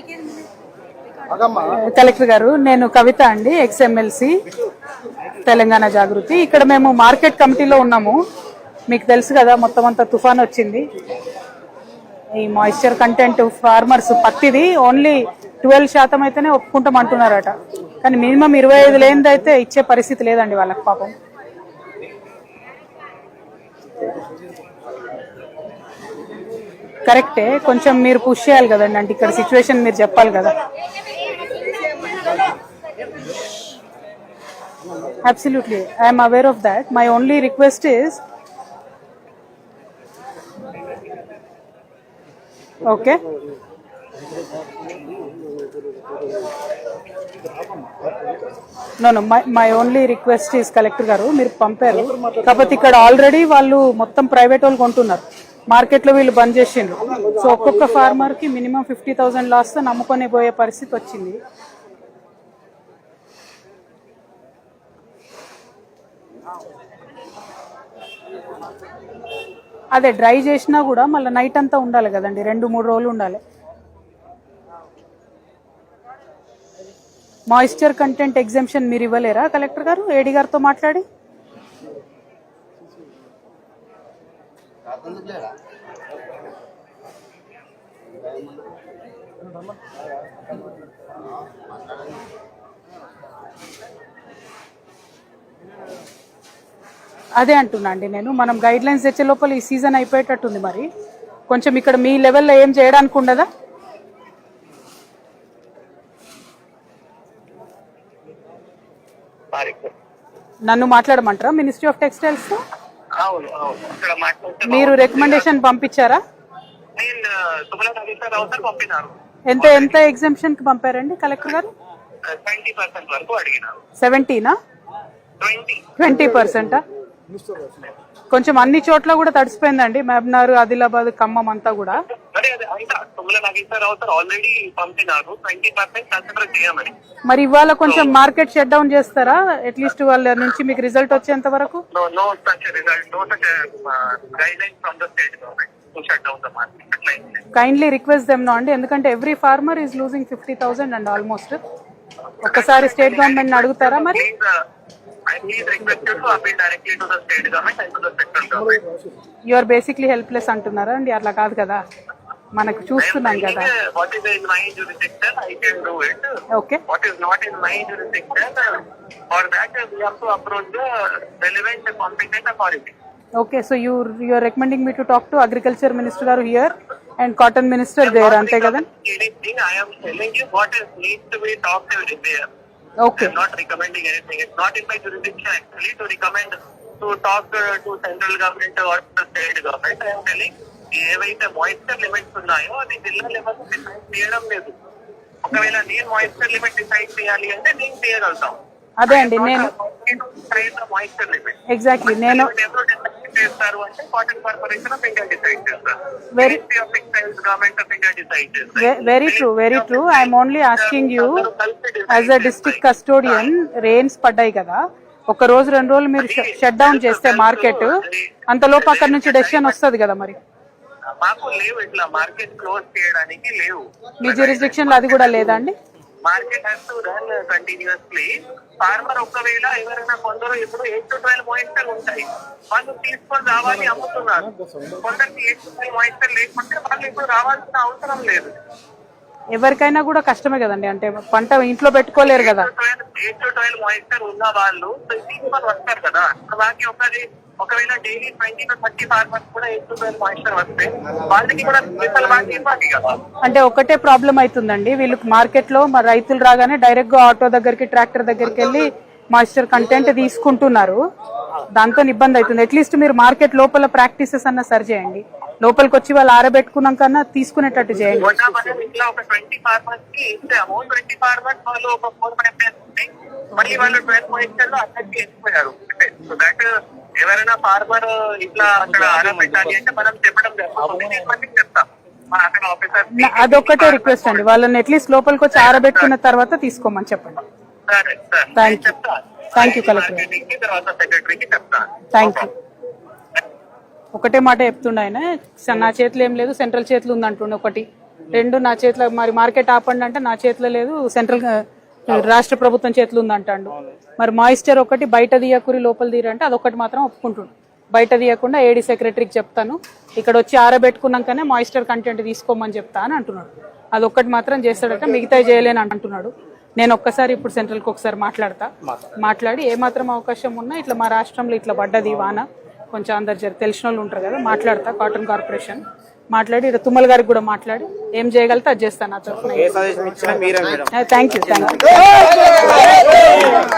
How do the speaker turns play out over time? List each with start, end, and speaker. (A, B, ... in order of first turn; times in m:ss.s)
0:01.3-0:01.6 A
0:01.7-0:04.4 B
0:05.4-0:08.2 B
0:08.9-0:10.8 B
0:12.4-0:21.1 B
0:27.1-0:30.6 B
0:35.2-0:38.2 B
0:42.8-0:43.2 B
0:49.0-1:01.4 B
1:09.9-1:13.4 B
1:17.5-1:21.0 B
1:37.4-1:40.9 B
1:41.5-1:43.5 B
1:49.5-1:49.9 C
1:50.7-1:52.6 B
1:53.2-1:55.5 C
1:54.7-1:56.2 B
1:57.0-2:00.0 C
1:59.5-2:01.7 B
2:02.2-2:03.8 C
2:04.0-2:04.6 B
2:05.4-2:06.0 C
2:06.0-2:06.8 B
2:08.3-2:12.0 B
2:12.1-2:17.0 C
2:17.3-2:21.8 B
2:17.8-2:18.2 C
2:21.9-2:27.4 C
2:27.5-2:31.6 B
2:32.4-2:34.6 C
2:32.4-2:34.2 B
2:35.3-2:38.8 C
2:39.5-2:41.8 B
2:42.6-2:43.7 B
2:43.0-2:46.3 C
2:46.5-2:46.8 B
2:46.9-2:53.0 C
2:53.4-2:58.8 B
2:58.0-3:02.5 C
3:03.0-3:03.3 B
3:03.2-3:14.8 C
3:15.4-3:33.5 C
3:19.0-3:19.7 B
3:21.7-3:22.5 B
3:26.3-3:26.6 B
3:28.8-3:31.4 B
3:32.1-3:40.4 B
3:36.2-3:39.8 C
3:41.2-3:45.6 C
3:44.2-3:45.7 B
3:46.2-3:58.6 C
3:59.6-4:02.7 B
4:02.2-4:13.2 C
4:13.4-4:21.0 B
4:21.8-4:28.4 B
4:28.2-4:44.5 C
4:43.1-4:47.4 B
4:45.5-4:46.1 C
4:47.9-4:52.5 C
4:48.6-4:48.9 B
4:49.6-4:50.3 B
4:52.1-4:52.5 B
4:54.2-5:29.8 B
5:29.6-5:30.9 A
5:30.9-5:32.1 B
5:31.9-5:33.7 A